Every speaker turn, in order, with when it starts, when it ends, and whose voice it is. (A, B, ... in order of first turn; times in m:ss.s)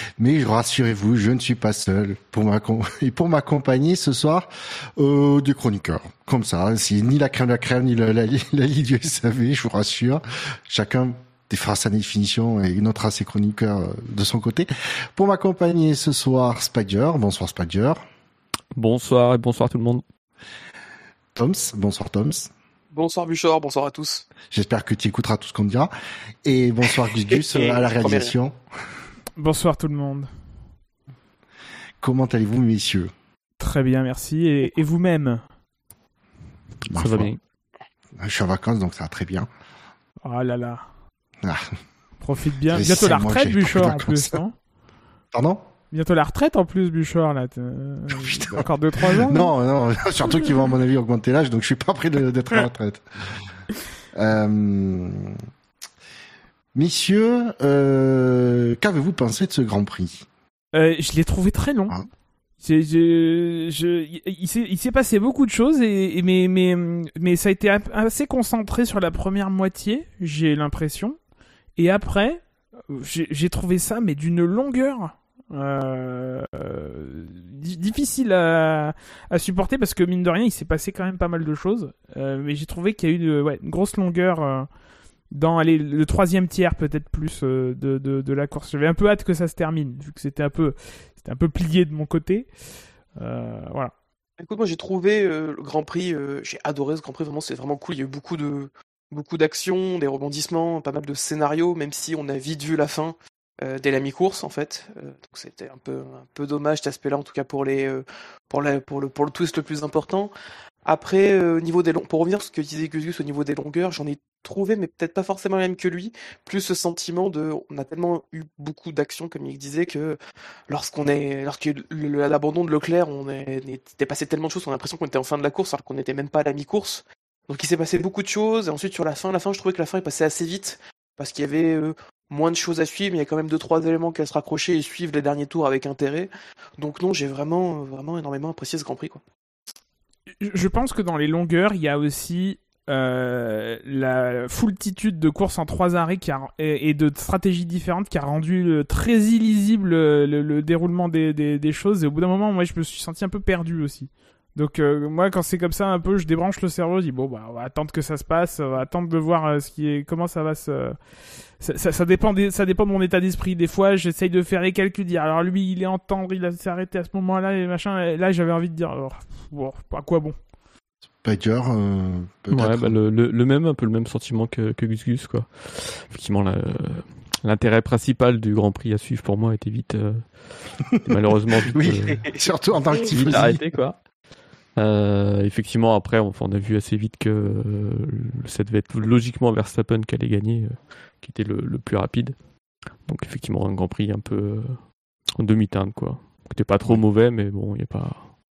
0:00.2-0:18.0 A
0:18.7-0:20.0 B
0:21.3-0:22.5 A
0:22.9-0:24.3 C
0:24.5-0:25.9 A
0:26.4-0:28.6 A
0:27.3-0:28.3 C
0:29.4-0:30.3 D
0:32.0-0:33.1 A
0:33.6-0:35.4 D
0:36.8-0:37.3 A
0:36.9-0:37.4 B
0:38.2-0:39.5 A
0:40.2-0:40.8 D
0:41.4-0:41.7 A
0:42.2-0:44.5 D
0:42.7-0:44.4 A
0:45.3-0:45.7 A
0:45.9-0:49.5 D
0:48.1-0:53.0 A
0:54.1-0:55.4 A
0:56.7-1:00.3 A
1:00.7-1:02.0 D
1:02.6-1:11.2 D
1:11.8-1:24.7 D
1:25.3-1:32.5 D
1:33.2-1:33.9 D
1:34.4-1:50.3 C
1:50.8-2:00.2 C
2:00.7-2:19.2 C
2:20.4-2:41.0 D
2:41.6-2:50.4 D
2:51.2-2:53.0 A
2:52.5-3:02.2 B
3:01.7-3:03.6 A
3:02.1-3:02.4 C
3:03.1-3:04.0 B
3:04.8-3:12.4 B
3:13.0-3:14.8 B
3:15.4-3:18.3 B